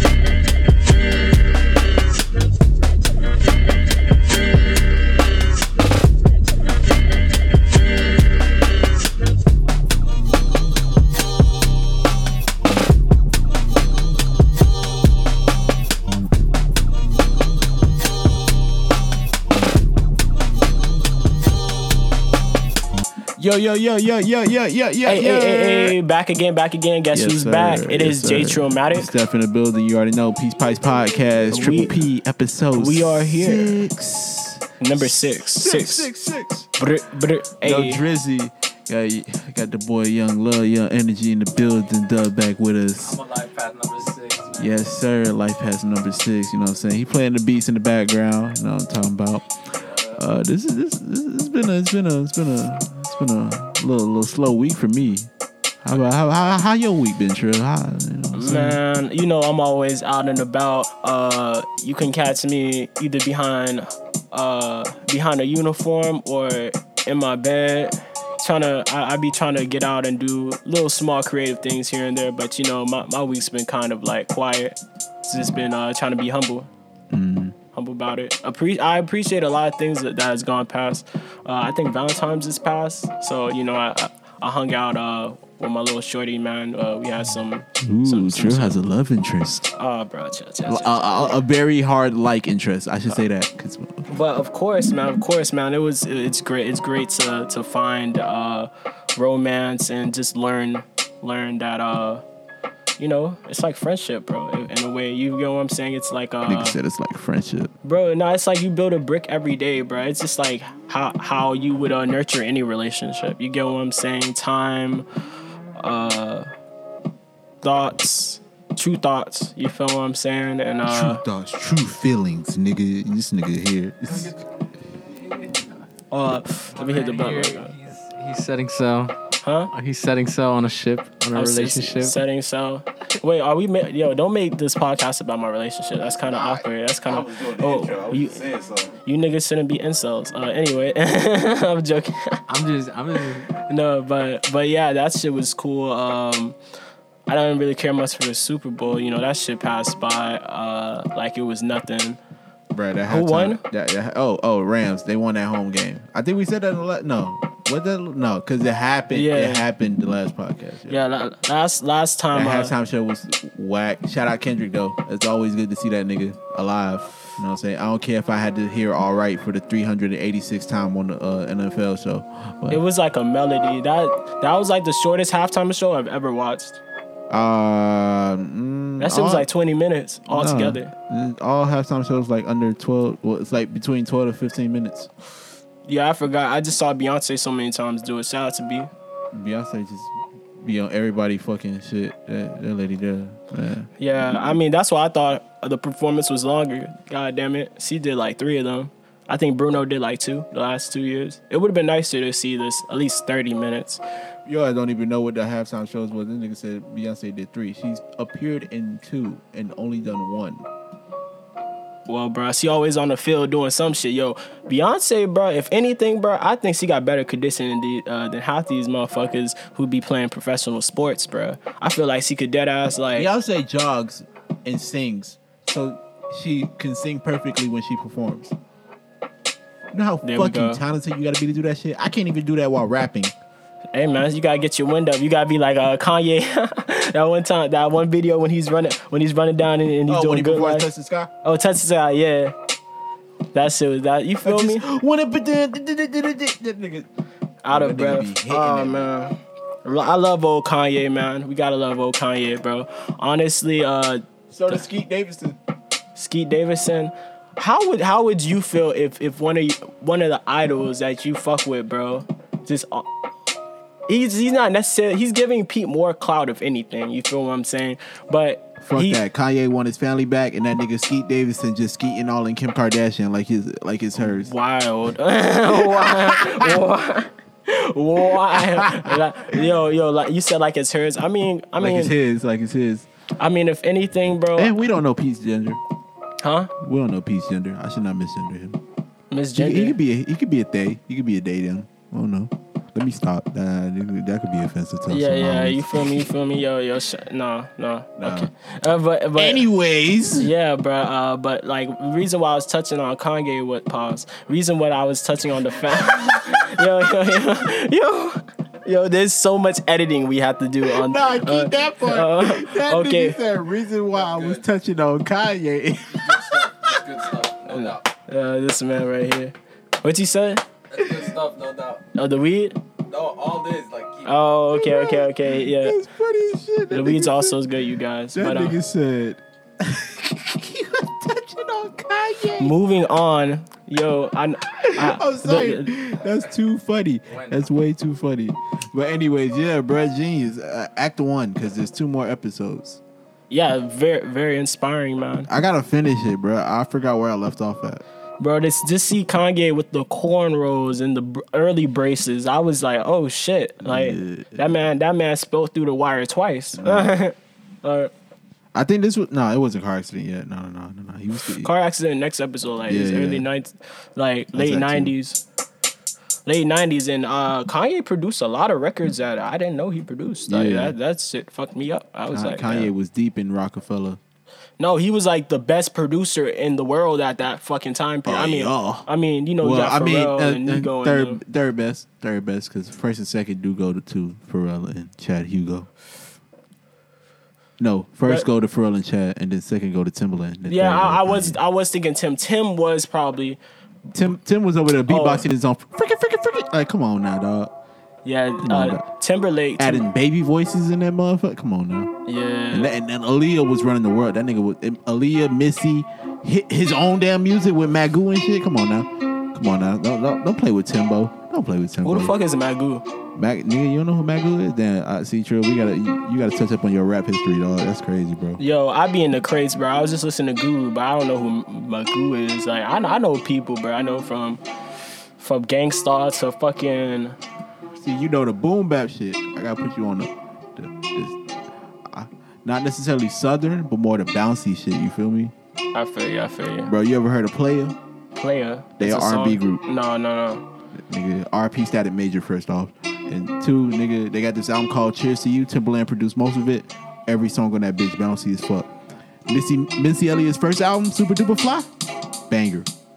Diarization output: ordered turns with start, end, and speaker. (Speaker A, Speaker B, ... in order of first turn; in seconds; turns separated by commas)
Speaker A: 23.4-25.9, Speaker B: 25.0-29.1, Speaker A: 27.1-36.7, Speaker B: 31.5-31.9, Speaker B: 32.8-33.8, Speaker B: 34.8-36.1, Speaker B: 36.8-38.0, Speaker A: 37.6-43.2, Speaker C: 43.0-44.8, Speaker A: 44.6-49.5, Speaker C: 49.8-50.2, Speaker A: 50.2-55.3, Speaker A: 55.8-58.8, Speaker B: 58.3-76.7, Speaker A: 77.1-77.6, Speaker B: 77.7-88.8, Speaker A: 87.8-89.7, Speaker B: 89.7-91.4, Speaker A: 90.7-94.1, Speaker B: 94.1-102.2, Speaker B: 103.0-106.8, Speaker A: 106.5-107.7, Speaker B: 107.8-115.1, Speaker B: 115.8-116.5, Speaker B: 117.6-121.2, Speaker A: 120.9-124.3, Speaker C: 124.1-124.4, Speaker C: 125.2-125.7, Speaker B: 126.1-127.7, Speaker C: 126.8-129.2, Speaker B: 129.4-129.7, Speaker C: 129.7-132.2, Speaker B: 131.3-138.4, Speaker A: 136.2-138.9, Speaker B: 139.0-142.4, Speaker C: 142.5-143.5, Speaker B: 143.6-146.6, Speaker B: 147.3-152.2, Speaker A: 152.7-161.0, Speaker B: 153.1-153.6, Speaker B: 159.1-159.7, Speaker B: 160.9-162.7, Speaker A: 162.3-172.8, Speaker B: 172.7-176.8, Speaker A: 177.3-179.5, Speaker B: 179.0-180.9, Speaker A: 180.3-185.1, Speaker B: 185.9-188.9, Speaker A: 189.3-193.9, Speaker B: 194.0-204.0, Speaker A: 204.5-210.6, Speaker B: 212.1-223.3, Speaker A: 223.2-228.6, Speaker A: 229.9-233.3, Speaker B: 230.2-230.8, Speaker B: 233.9-240.9, Speaker A: 240.1-241.3, Speaker B: 241.4-242.6, Speaker B: 243.5-244.8, Speaker A: 244.4-247.1, Speaker B: 247.6-254.8, Speaker A: 247.7-249.1, Speaker A: 254.5-255.6, Speaker B: 256.2-263.1, Speaker B: 264.1-269.2, Speaker A: 268.8-274.5, Speaker B: 274.2-282.1, Speaker A: 275.6-276.8, Speaker A: 278.3-279.6, Speaker A: 281.8-283.1, Speaker B: 283.4-284.7, Speaker A: 284.6-285.8, Speaker B: 286.4-286.7, Speaker A: 286.8-288.8, Speaker B: 289.3-290.0, Speaker A: 289.6-296.3, Speaker B: 295.1-299.6, Speaker A: 298.2-298.5, Speaker A: 299.4-300.5, Speaker B: 300.4-313.4, Speaker A: 306.0-306.4, Speaker A: 310.8-317.0, Speaker C: 314.2-314.6, Speaker C: 316.1-318.1, Speaker B: 317.7-320.7, Speaker C: 320.9-322.1, Speaker B: 322.1-322.8, Speaker C: 323.1-324.4, Speaker B: 324.2-326.0, Speaker A: 324.7-327.6, Speaker B: 326.9-328.8, Speaker A: 328.3-332.7, Speaker B: 332.6-335.9, Speaker A: 334.8-343.0, Speaker C: 337.3-337.7, Speaker B: 343.5-345.5, Speaker A: 345.5-348.0, Speaker B: 348.4-358.1, Speaker A: 353.8-354.7, Speaker A: 356.8-357.1, Speaker A: 358.7-361.7, Speaker B: 361.6-365.4, Speaker A: 362.9-363.4, Speaker A: 364.5-365.1, Speaker B: 366.5-372.9, Speaker A: 370.5-370.9, Speaker A: 372.3-374.2, Speaker B: 374.8-381.4, Speaker A: 378.3-379.1, Speaker A: 379.6-385.9, Speaker A: 387.8-391.6, Speaker B: 390.7-393.6, Speaker A: 394.1-397.7, Speaker B: 395.1-395.5, Speaker B: 398.2-400.0, Speaker A: 398.6-399.0, Speaker A: 399.8-402.1, Speaker B: 402.3-402.9, Speaker A: 402.7-412.3, Speaker B: 412.0-413.1, Speaker A: 413.4-418.6, Speaker B: 418.6-424.6, Speaker B: 425.4-427.4, Speaker A: 427.9-431.4, Speaker A: 432.1-435.5, Speaker B: 435.9-436.9, Speaker A: 436.9-438.0, Speaker B: 438.4-440.7, Speaker A: 439.0-439.8, Speaker A: 440.9-448.9, Speaker A: 449.5-451.9, Speaker A: 452.5-452.9